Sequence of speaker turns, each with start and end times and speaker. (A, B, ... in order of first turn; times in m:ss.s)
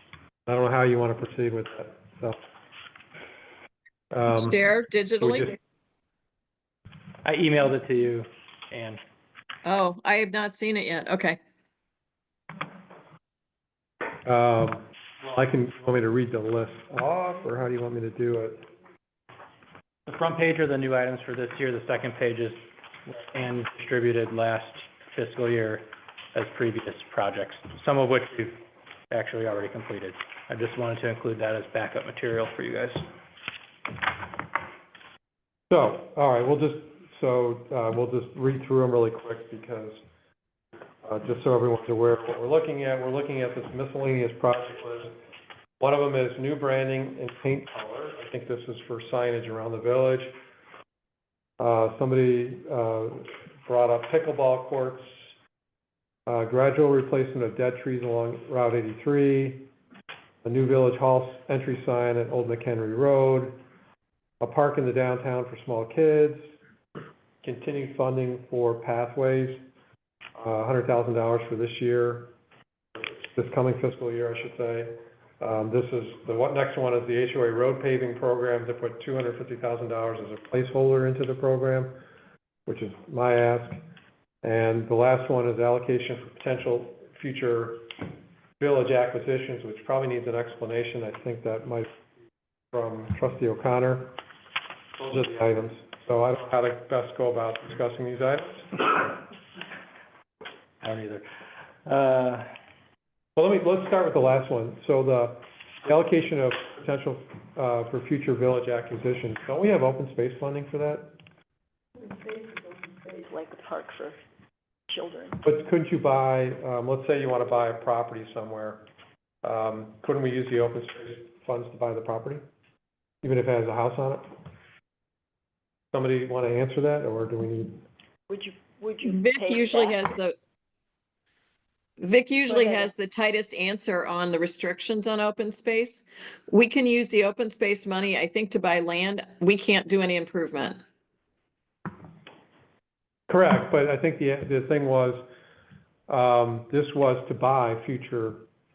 0:00.4-0:02.4 A
0:04.1-0:04.6 A
0:04.3-0:05.5 B
0:05.2-0:05.5 A
0:07.2-0:09.0 C
0:09.6-0:11.4 B
0:14.2-0:18.6 A
0:20.1-0:22.6 C
0:23.1-0:28.6 C
0:29.1-0:33.0 C
0:35.7-0:40.0 A
0:41.0-0:45.2 A
0:45.8-0:50.4 A
0:51.6-0:55.2 A
0:56.2-0:59.7 A
1:00.4-1:03.6 A
1:04.4-1:06.5 A
1:07.4-1:09.6 A
1:10.4-1:12.3 A
1:13.0-1:22.0 A
1:22.6-1:23.8 A
1:24.4-1:27.9 A
1:28.6-1:32.0 A
1:32.7-1:34.2 A
1:35.0-1:38.8 A
1:40.8-1:41.2 C
1:41.8-1:42.5 C
1:43.4-1:51.2 A
1:52.0-1:54.2 D
1:54.9-1:55.4 D
1:55.4-1:58.8 A
1:59.4-2:02.4 A
2:03.2-2:04.3 A
2:05.9-2:07.8 A
2:08.3-2:10.0 D
2:09.0-2:10.4 B
2:12.0-2:20.8 B
2:12.5-2:12.9 D
2:23.3-2:25.2 A
2:26.1-2:28.4 A